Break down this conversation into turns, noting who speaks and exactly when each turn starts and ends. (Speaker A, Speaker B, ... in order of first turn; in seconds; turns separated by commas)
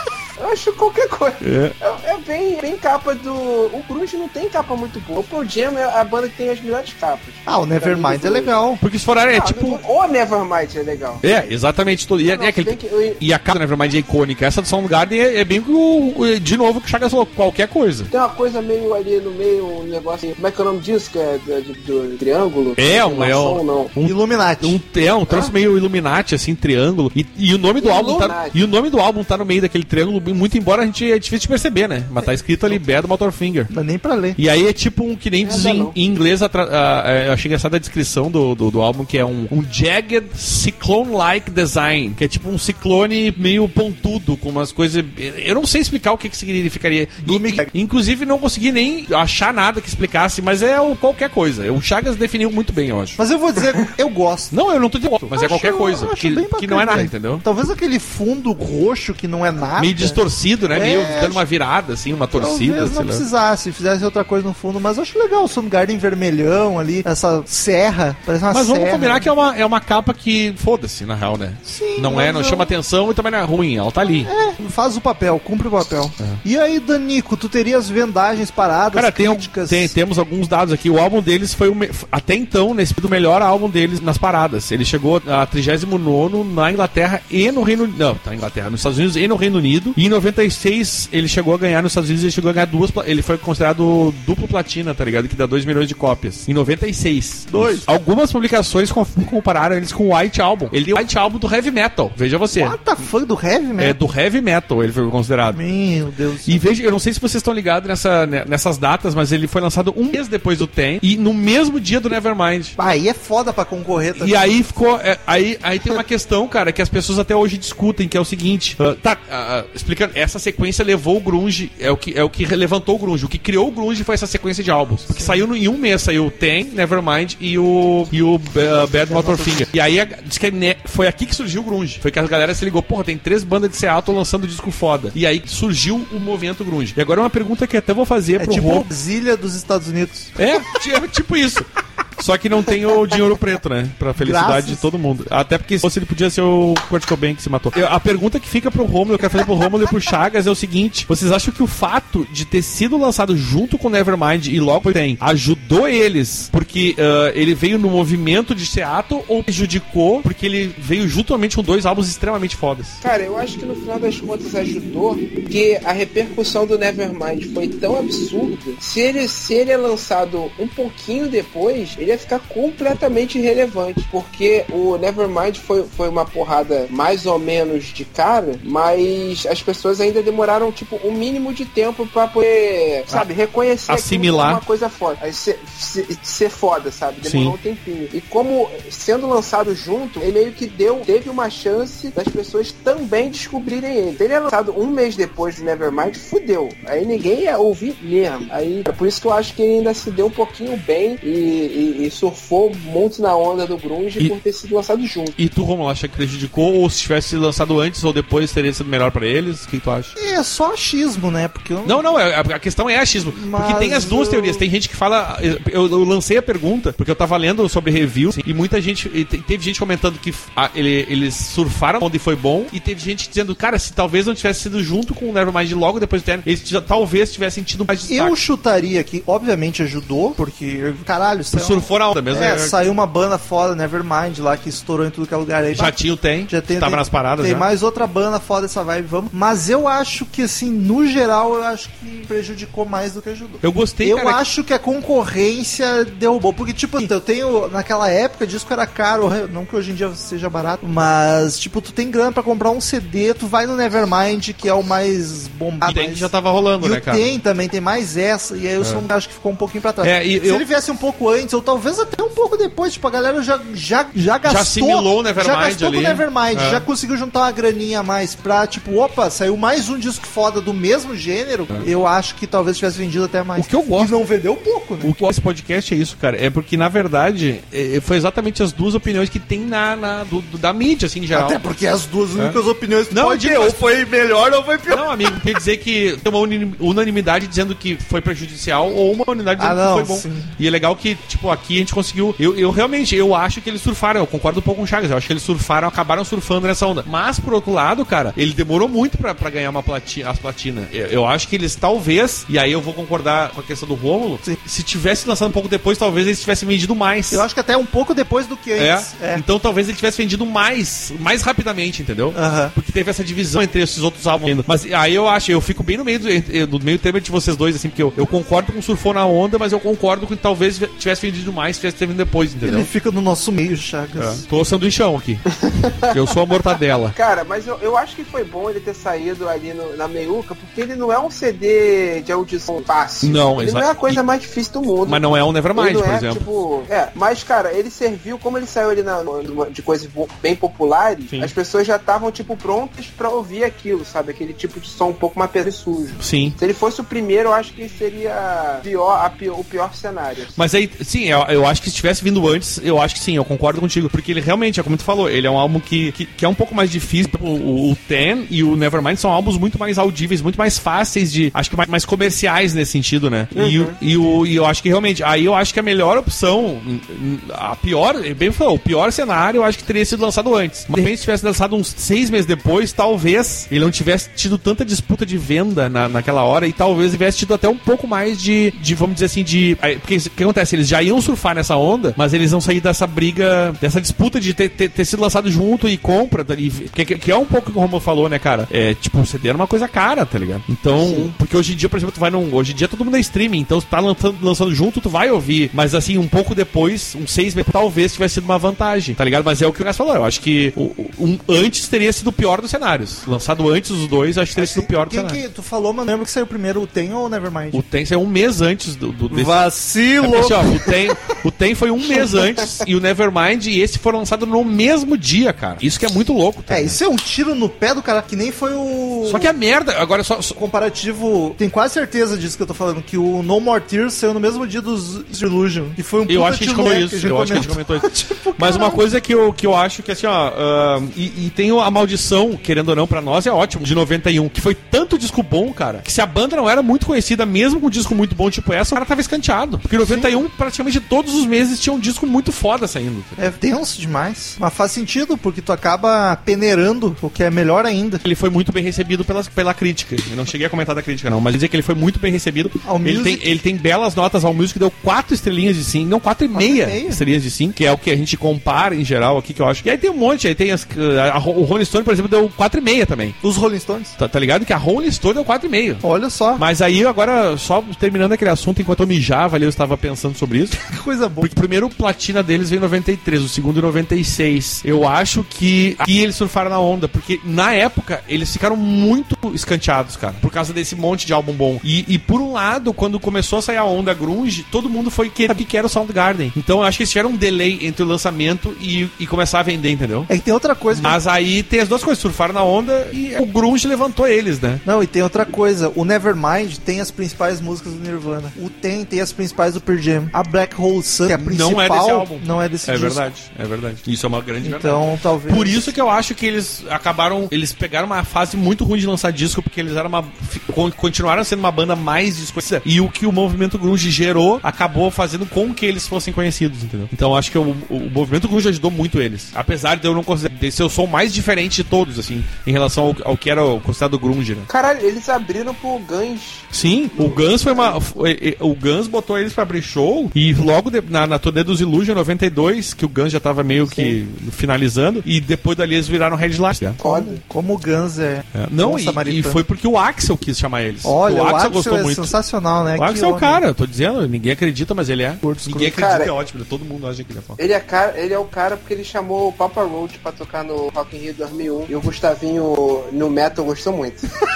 Speaker A: 0.4-8.5, Speaker B: 1.4-1.8, Speaker C: 7.5-8.8, Speaker B: 8.8-9.8, Speaker A: 9.3-11.2, Speaker B: 11.2-18.1, Speaker A: 12.2-13.2, Speaker A: 18.1-23.9, Speaker B: 22.8-33.7, Speaker C: 24.0-24.8, Speaker A: 27.8-28.5, Speaker C: 33.7-34.4, Speaker B: 34.4-53.2, Speaker A: 35.4-35.9, Speaker C: 47.2-47.7, Speaker C: 53.2-54.5, Speaker B: 54.5-57.4, Speaker C: 55.3-60.2, Speaker B: 59.8-63.2, Speaker C: 60.7-61.4, Speaker C: 62.3-69.3, Speaker B: 68.5-74.3, Speaker C: 71.6-72.7, Speaker C: 74.2-79.9, Speaker B: 78.9-102.8, Speaker C: 97.5-97.8, Speaker C: 102.5-104.0, Speaker B: 103.8-105.6, Speaker C: 105.5-106.6, Speaker B: 106.4-112.7, Speaker C: 112.8-114.6, Speaker B: 114.2-138.9, Speaker C: 125.1-125.5, Speaker C: 129.1-129.7, Speaker C: 138.4-140.3, Speaker B: 140.4-163.0, Speaker C: 144.2-144.8, Speaker A: 163.0-205.3, Speaker B: 183.9-184.6, Speaker B: 187.2-187.6, Speaker B: 205.4-210.1, Speaker C: 210.2-212.0, Speaker B: 211.8-228.3, Speaker C: 213.3-214.7, Speaker C: 228.1-235.9, Speaker B: 231.5-232.8, Speaker B: 235.7-237.7, Speaker C: 236.5-275.1, Speaker B: 243.6-244.4, Speaker B: 255.8-257.3, Speaker B: 260.0-260.6, Speaker B: 264.4-266.9, Speaker B: 273.6-274.1, Speaker B: 275.0-281.6, Speaker C: 281.3-285.5, Speaker B: 282.4-283.9, Speaker B: 284.9-307.4, Speaker C: 289.6-290.5, Speaker C: 307.3-309.4, Speaker B: 308.8-322.9, Speaker C: 312.3-312.7, Speaker C: 322.6-324.4, Speaker B: 324.2-325.5, Speaker A: 325.7-326.0, Speaker B: 326.1-327.1, Speaker A: 327.1-335.2, Speaker B: 333.2-334.2, Speaker B: 335.0-336.4, Speaker A: 335.7-350.6, Speaker B: 346.2-346.6, Speaker B: 350.6-405.4, Speaker A: 363.5-363.9, Speaker A: 390.9-391.3, Speaker C: 404.6-407.8, Speaker B: 407.7-409.6, Speaker C: 409.3-411.1, Speaker B: 410.2-417.0, Speaker C: 416.7-419.5, Speaker B: 419.2-420.6, Speaker C: 420.5-429.0, Speaker B: 426.3-443.4, Speaker C: 440.0-440.3, Speaker C: 443.4-448.2, Speaker B: 448.2-463.4, Speaker C: 452.8-453.4, Speaker C: 456.5-457.2, Speaker C: 463.4-464.1, Speaker B: 464.2-466.0, Speaker C: 466.0-466.6, Speaker B: 466.6-470.8, Speaker C: 470.8-471.5, Speaker B: 471.4-490.3, Speaker C: 490.3-491.2, Speaker B: 490.9-494.8, Speaker C: 494.8-503.2, Speaker B: 501.3-524.7, Speaker C: 504.6-505.9, Speaker A: 524.7-528.0, Speaker B: 526.7-537.0, Speaker A: 533.9-534.1, Speaker A: 537.0-537.4, Speaker C: 537.0-539.6, Speaker B: 538.5-542.3, Speaker C: 541.0-543.6, Speaker B: 543.0-547.6, Speaker C: 545.4-546.0, Speaker A: 545.9-546.3, Speaker A: 547.6-554.3